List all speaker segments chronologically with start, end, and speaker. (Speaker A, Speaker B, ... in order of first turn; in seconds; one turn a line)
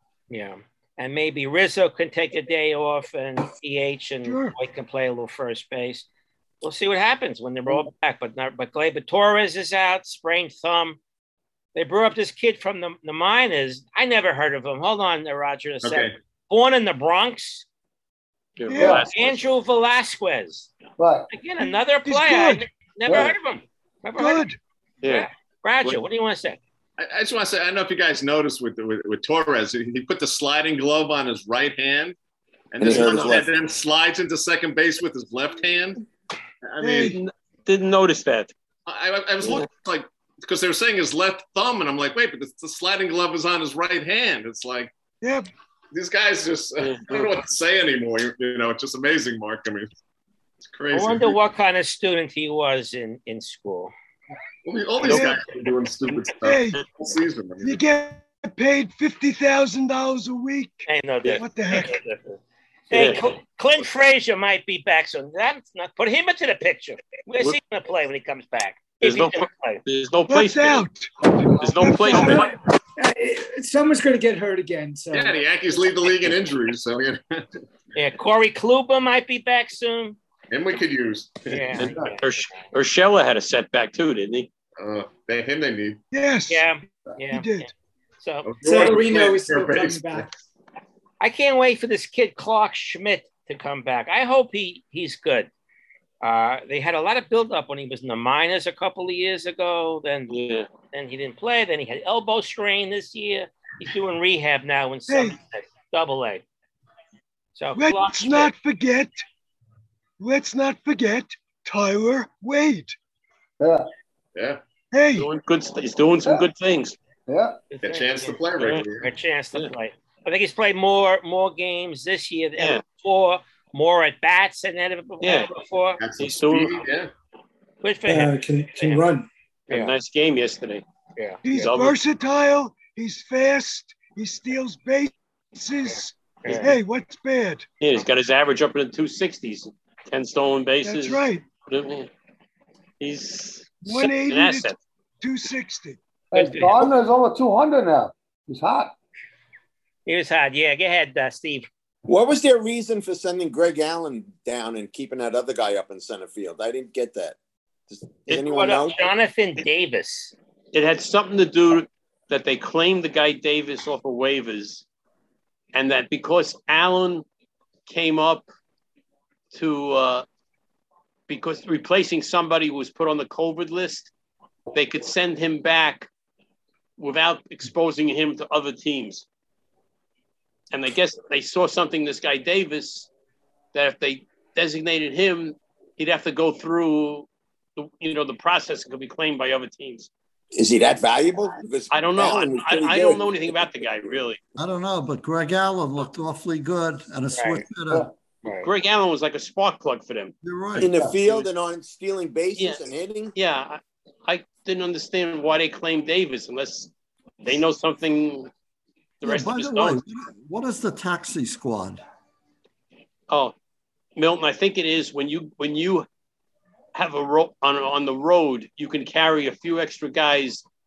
Speaker A: 0.3-6.0
Speaker B: 4.2-4.5
Speaker A: 6.6-11.0
Speaker A: 11.7-17.6
Speaker C: 15.8-16.1
Speaker D: 18.6-19.5
Speaker B: 18.7-19.0
Speaker E: 18.7-19.1
Speaker A: 19.0-20.7
Speaker E: 21.0-21.3
Speaker A: 21.3-24.5
Speaker B: 22.0-22.6
Speaker E: 23.1-23.3
Speaker B: 24.2-24.6
Speaker D: 25.0-25.3
Speaker A: 25.0-26.6
Speaker C: 27.0-32.1
Speaker C: 32.7-36.0
Speaker F: 32.8-33.5
Speaker D: 32.9-33.2
Speaker C: 36.6-37.2
Speaker B: 36.8-37.2
Speaker D: 37.0-38.5
Speaker C: 38.9-44.9
Speaker D: 39.4-39.7
Speaker B: 45.2-45.5
Speaker C: 45.9-49.9
Speaker D: 46.8-47.4
Speaker C: 50.7-51.4
Speaker A: 50.9-53.9
Speaker C: 54.6-57.8
Speaker B: 56.4-56.8
Speaker B: 57.6-60.9
Speaker A: 60.9-69.8
Speaker B: 61.4-61.9
Speaker D: 62.9-63.2
Speaker D: 69.0-70.8
Speaker B: 70.3-72.5
Speaker D: 71.6-72.5
Speaker G: 72.1-75.4
Speaker C: 75.1-77.5
Speaker A: 77.9-80.2
Speaker C: 80.5-81.8
Speaker A: 81.5-82.6
Speaker D: 81.7-84.5
Speaker C: 84.8-86.0
Speaker B: 86.1-86.7
Speaker A: 86.5-89.0
Speaker B: 87.3-87.7
Speaker C: 88.4-90.3
Speaker G: 88.6-90.3
Speaker A: 91.2-95.5
Speaker A: 96.2-106.4
Speaker D: 100.3-100.7
Speaker B: 105.1-105.4
Speaker A: 107.5-108.5
Speaker B: 107.7-109.2
Speaker B: 110.2-113.0
Speaker E: 113.6-113.9
Speaker C: 114.3-114.6
Speaker B: 114.9-115.3
Speaker D: 115.1-117.0
Speaker E: 117.3-117.7
Speaker A: 117.7-126.0
Speaker C: 117.8-119.1
Speaker D: 122.6-122.8
Speaker D: 125.2-125.5
Speaker C: 126.0-127.1
Speaker D: 126.2-126.8
Speaker A: 127.8-129.1
Speaker G: 128.1-129.3
Speaker A: 129.7-129.9
Speaker D: 129.7-130.8
Speaker A: 131.2-131.6
Speaker B: 131.4-137.7
Speaker D: 131.5-132.0
Speaker A: 136.4-136.7
Speaker D: 137.8-142.1
Speaker B: 140.8-141.4
Speaker D: 143.0-144.8
Speaker B: 143.8-146.0
Speaker E: 146.3-148.9
Speaker A: 146.3-146.9
Speaker A: 150.1-151.7
Speaker F: 152.1-157.4
Speaker F: 157.9-159.0
Speaker A: 158.3-160.3
Speaker D: 160.7-164.8
Speaker D: 165.7-167.2
Speaker D: 167.9-168.5
Speaker D: 169.5-170.2
Speaker D: 171.3-174.1
Speaker D: 174.7-176.1
Speaker D: 177.0-179.2
Speaker D: 180.7-183.1
Speaker D: 183.7-190.1
Speaker F: 190.5-193.6
Speaker D: 191.9-194.4
Speaker H: 194.6-198.1
Speaker A: 197.3-197.6
Speaker A: 198.4-198.7
Speaker D: 198.6-200.3
Speaker H: 200.4-200.9
Speaker F: 200.8-203.3
Speaker E: 200.8-201.2
Speaker D: 202.6-202.8
Speaker D: 203.3-206.9
Speaker D: 207.4-208.5
Speaker D: 209.2-210.0
Speaker H: 209.2-212.0
Speaker D: 214.2-216.1
Speaker D: 216.9-220.6